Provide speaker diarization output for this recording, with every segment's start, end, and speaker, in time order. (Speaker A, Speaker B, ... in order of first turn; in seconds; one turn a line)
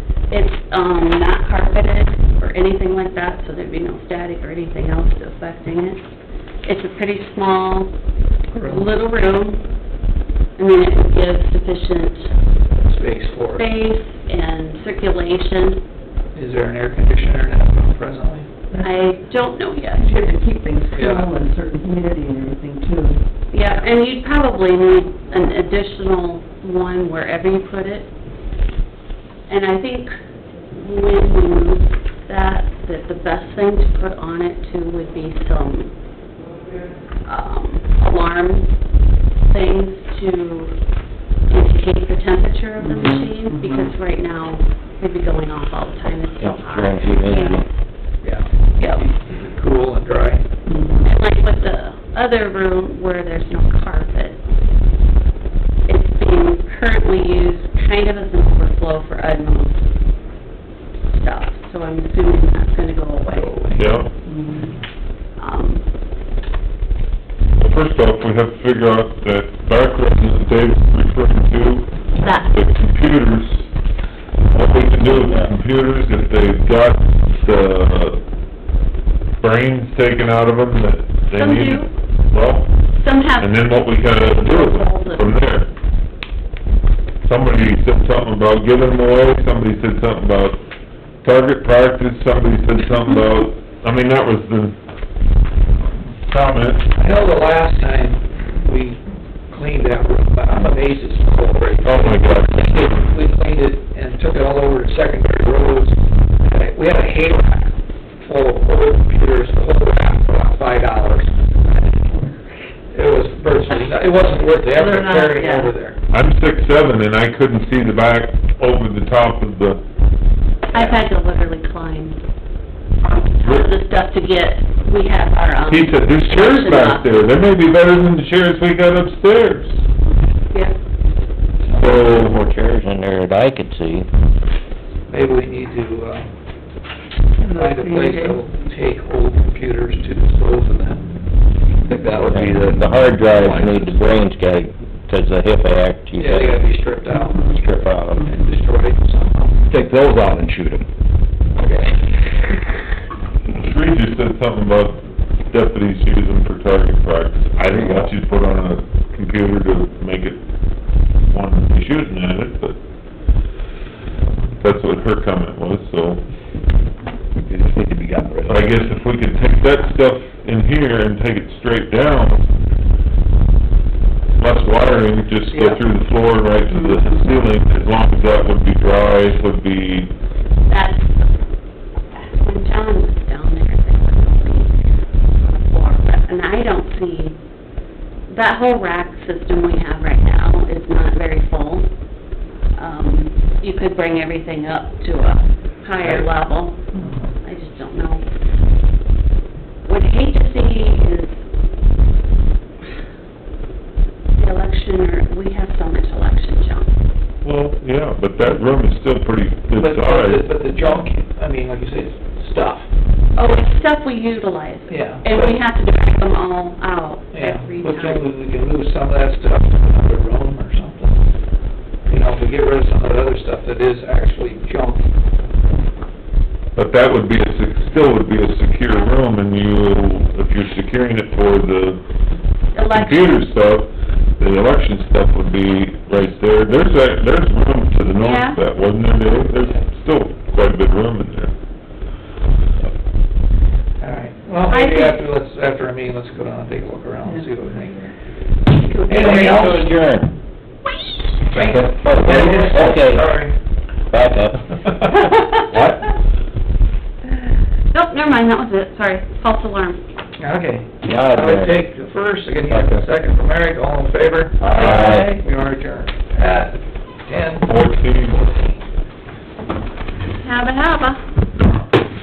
Speaker A: 0.3-6.0
Speaker A: 6.6-7.9
Speaker B: 8.5-8.9
Speaker A: 8.6-9.6
Speaker A: 10.6-12.3
Speaker B: 12.9-13.6
Speaker A: 13.6-15.8
Speaker B: 16.4-18.5
Speaker A: 18.8-20.2
Speaker C: 20.0-23.2
Speaker B: 20.9-21.3
Speaker A: 23.5-28.1
Speaker A: 29.5-30.1
Speaker A: 30.7-35.9
Speaker A: 37.2-38.7
Speaker A: 39.5-40.8
Speaker A: 41.5-47.6
Speaker C: 42.9-43.8
Speaker D: 46.4-47.6
Speaker B: 48.2-50.5
Speaker A: 48.8-49.0
Speaker C: 50.7-51.0
Speaker A: 51.0-54.4
Speaker A: 55.9-59.9
Speaker A: 61.1-63.7
Speaker B: 63.3-63.8
Speaker E: 63.8-64.1
Speaker C: 64.2-64.7
Speaker A: 65.4-65.8
Speaker E: 67.6-73.7
Speaker A: 72.2-72.5
Speaker E: 74.5-78.2
Speaker D: 75.2-75.5
Speaker E: 79.4-82.7
Speaker A: 81.3-81.9
Speaker A: 83.0-85.4
Speaker E: 83.4-85.7
Speaker E: 87.2-90.6
Speaker E: 91.2-94.8
Speaker E: 96.2-96.9
Speaker B: 97.0-112.2
Speaker E: 101.8-103.0
Speaker B: 112.9-116.0
Speaker A: 114.7-115.7
Speaker E: 116.1-119.8
Speaker A: 120.7-122.2
Speaker B: 120.7-121.0
Speaker A: 123.0-127.1
Speaker E: 123.4-123.7
Speaker E: 125.7-129.8
Speaker B: 131.6-132.0
Speaker E: 131.8-132.3
Speaker D: 131.8-134.1
Speaker B: 135.1-136.2
Speaker C: 137.4-138.4
Speaker B: 137.4-141.0
Speaker F: 141.8-144.0
Speaker D: 142.3-146.6
Speaker B: 146.2-147.4
Speaker D: 147.3-148.3
Speaker B: 148.2-149.6
Speaker F: 149.7-150.8
Speaker F: 151.6-151.9
Speaker E: 153.5-160.4
Speaker E: 161.3-162.8
Speaker E: 164.6-166.2
Speaker F: 167.4-168.7
Speaker E: 168.5-172.4
Speaker E: 174.4-180.1
Speaker B: 175.4-175.8
Speaker A: 180.7-181.1
Speaker A: 182.2-184.8
Speaker A: 185.4-187.4
Speaker A: 188.3-191.9
Speaker A: 192.8-196.9
Speaker B: 196.0-196.3
Speaker B: 196.9-197.3
Speaker A: 197.4-198.2
Speaker A: 199.8-201.4
Speaker A: 204.3-206.9
Speaker E: 207.4-210.4
Speaker B: 209.8-212.9
Speaker A: 213.3-218.3
Speaker B: 214.9-215.6
Speaker B: 217.3-221.2
Speaker B: 222.1-225.1
Speaker E: 226.8-232.0
Speaker A: 232.7-233.4
Speaker E: 232.9-241.5
Speaker A: 238.2-238.6
Speaker B: 244.0-248.1
Speaker A: 244.7-245.2
Speaker A: 248.8-249.9
Speaker D: 249.1-250.3
Speaker B: 249.3-249.8
Speaker B: 251.5-253.6
Speaker A: 251.5-251.8
Speaker F: 251.6-252.1
Speaker D: 251.8-253.3
Speaker D: 254.1-254.7
Speaker F: 255.7-256.1
Speaker A: 257.9-260.0
Speaker B: 260.4-268.8
Speaker D: 261.0-261.8
Speaker D: 262.7-263.0
Speaker D: 264.6-265.4
Speaker C: 264.8-265.4
Speaker E: 267.7-268.4
Speaker A: 270.4-271.2